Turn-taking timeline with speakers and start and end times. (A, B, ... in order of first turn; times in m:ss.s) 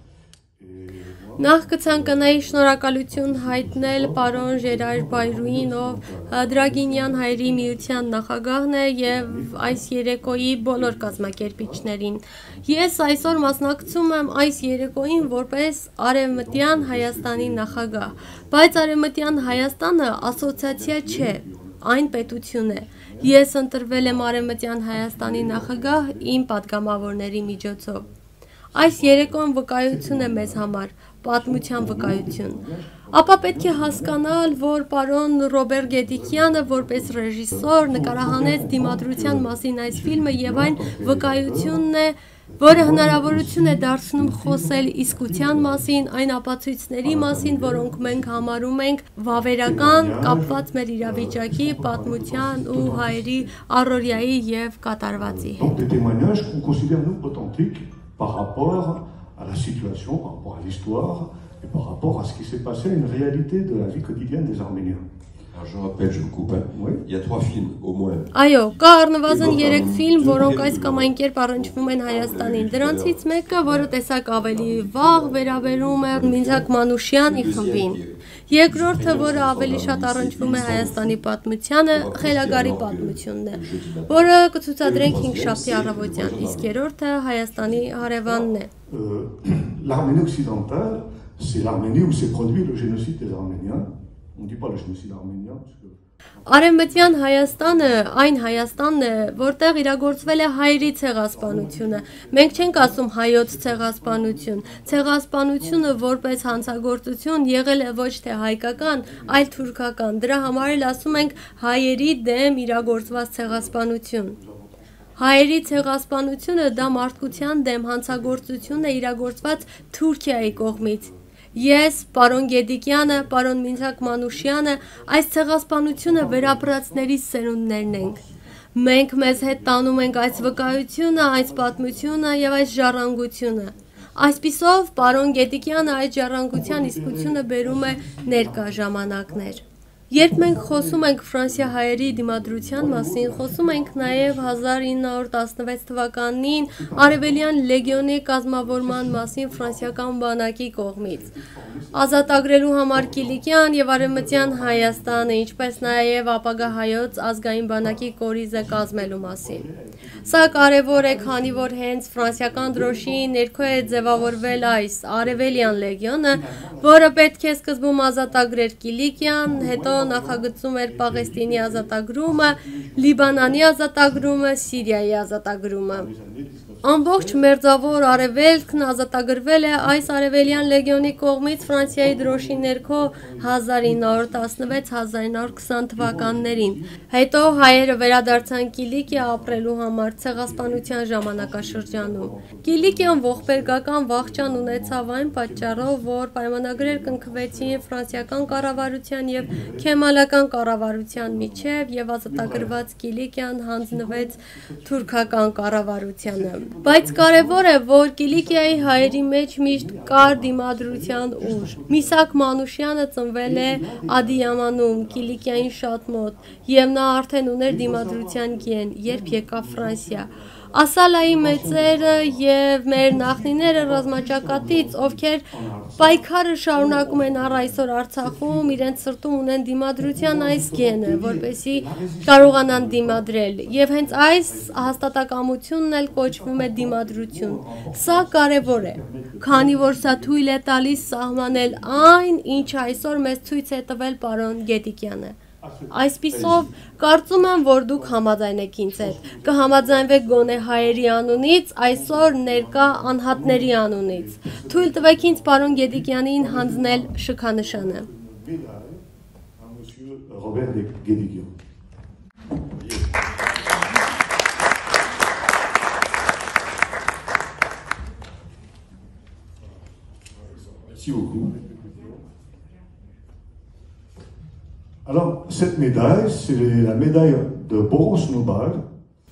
0:00.6-0:08.2 A
0:01.4-0:28.0 B
0:09.0-0:11.9 A
0:12.5-0:15.3 A
0:16.3-0:26.4 A
0:28.7-0:30.7 A
0:28.7-0:55.8 B
0:31.3-0:34.4 A
0:35.8-0:41.8 A
0:42.5-0:46.0 A
0:47.0-0:48.6 A
0:49.3-0:54.2 A
0:55.2-1:05.1 A
1:05.5-1:16.7 C
1:06.6-1:07.0 A
1:08.3-1:28.7 B
1:17.2-1:21.2 C
1:21.9-1:26.7 C
1:27.9-1:39.5 A
1:36.4-1:54.4 B
1:41.3-1:46.8 A
1:48.7-1:49.7 A
1:50.4-1:51.6 A
1:52.8-1:53.8 A
1:54.3-1:55.9 A
1:55.2-2:08.2 B
1:56.4-1:59.8 A
2:00.3-2:02.4 A
2:03.0-2:05.1 A
2:05.9-2:07.1 A
2:07.8-2:08.4 A
2:08.7-2:31.3 B
2:09.2-2:16.0 A
2:16.5-2:19.6 A
2:20.1-2:24.8 A
2:26.6-2:28.1 A
2:28.6-2:30.1 A
2:31.0-2:33.4 A
2:31.9-2:39.7 B
2:34.0-2:36.0 A
2:36.6-2:47.2 A
2:40.2-2:56.1 B
2:48.2-2:48.5 A
2:49.2-2:54.3 A
2:55.9-2:59.0 A
2:56.8-4:05.4 B
2:59.8-3:04.9 A
3:05.4-3:08.5 A
3:09.1-3:09.6 A
3:10.2-3:16.1 A
3:16.7-3:20.0 A
3:21.1-3:22.8 A
3:23.8-3:27.7 A
3:28.3-3:32.4 A
3:33.4-3:35.8 A
3:36.4-3:36.7 A
3:37.6-3:48.9 A
3:50.0-3:55.0 A
3:56.1-4:00.4 A
4:00.9-4:03.4 A
4:05.6-4:21.5 A
4:05.9-4:18.1 B
4:06.3-4:06.7 C
4:30.8-4:31.5 C
4:31.5-4:32.2 A
4:35.0-4:38.8 A